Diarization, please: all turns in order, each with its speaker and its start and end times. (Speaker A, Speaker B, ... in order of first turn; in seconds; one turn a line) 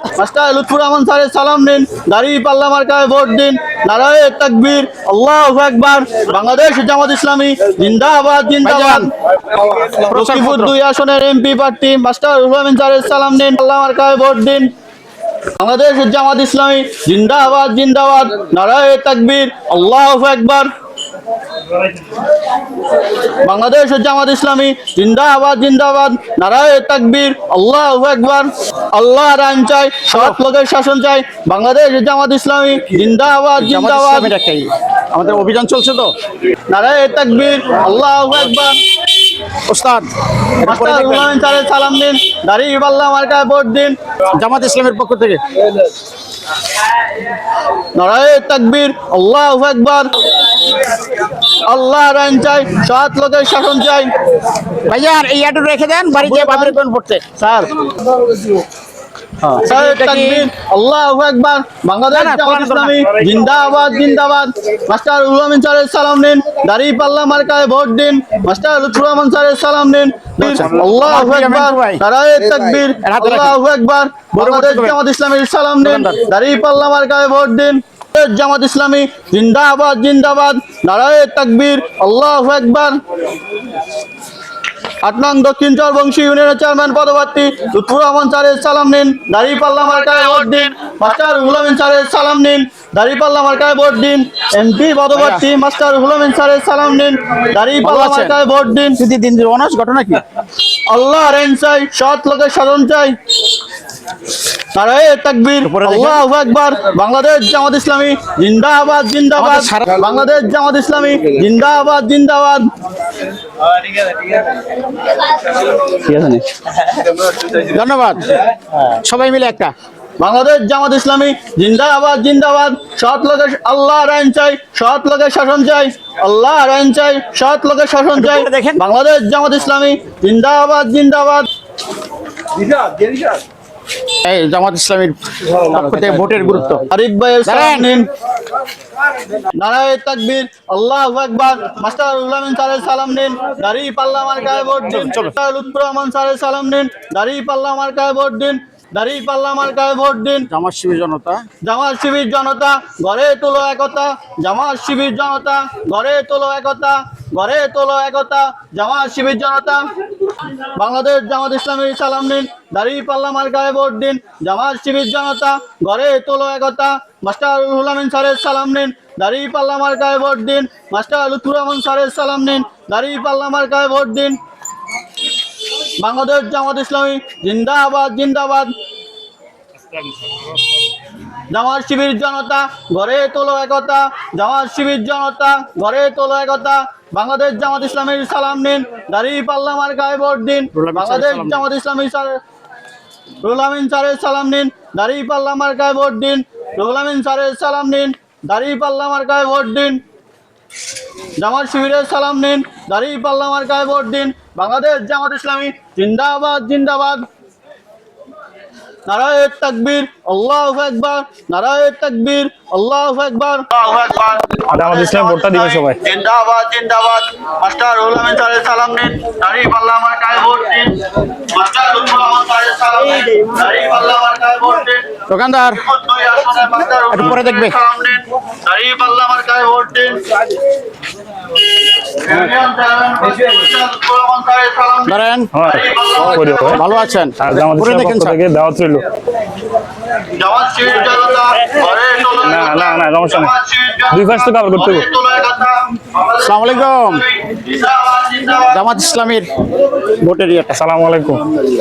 Speaker A: 0.2-9.1
Speaker B: 8.6-9.1
Speaker B: 9.9-10.7
Speaker A: 10.1-14.7
Speaker A: 15.6-20.7
Speaker A: 23.4-34.3
Speaker B: 30.1-30.4
Speaker B: 33.6-36.1
Speaker A: 36.7-38.8
Speaker B: 39.7-40.1
Speaker B: 40.6-41.3
Speaker A: 40.6-44.0
Speaker B: 44.4-45.6
Speaker A: 48.0-50.1
Speaker A: 51.7-54.1
Speaker B: 54.8-57.2
Speaker A: 56.2-56.7
Speaker A: 57.4-57.7
Speaker A: 59.4-83.0
Speaker B: 59.6-60.5
Speaker B: 62.1-63.1
Speaker B: 70.4-72.0
Speaker B: 73.0-73.6
Speaker B: 74.4-75.0
Speaker B: 75.8-76.2
Speaker A: 85.0-99.0
Speaker B: 95.1-95.5
Speaker B: 97.8-98.4
Speaker B: 99.0-100.2
Speaker A: 100.9-103.2
Speaker A: 104.7-112.7
Speaker B: 105.6-106.2
Speaker B: 109.3-109.9
Speaker A: 115.9-116.4
Speaker B: 117.5-119.7
Speaker A: 120.2-131.5
Speaker B: 128.1-128.8
Speaker B: 134.2-136.8
Speaker A: 136.9-138.1
Speaker B: 137.4-137.9
Speaker A: 139.5-150.5
Speaker B: 144.8-145.3
Speaker B: 150.5-151.5
Speaker A: 151.6-159.9
Speaker A: 160.8-174.4
Speaker A: 176.0-178.7
Speaker C: 179.8-180.8
Speaker A: 181.5-192.4
Speaker B: 190.7-191.6
Speaker A: 193.4-200.0
Speaker A: 201.4-207.2
Speaker A: 209.1-225.2
Speaker C: 214.7-216.0
Speaker B: 225.3-225.8
Speaker A: 225.8-230.3
Speaker B: 227.1-227.8
Speaker A: 232.0-237.0
Speaker B: 235.1-235.5
Speaker C: 235.5-236.8
Speaker B: 236.7-238.4
Speaker C: 237.4-239.1
Speaker A: 240.3-248.8
Speaker C: 242.4-243.5
Speaker C: 244.1-245.1
Speaker B: 246.4-247.2
Speaker B: 248.7-249.5
Speaker B: 250.0-250.8
Speaker C: 250.8-251.5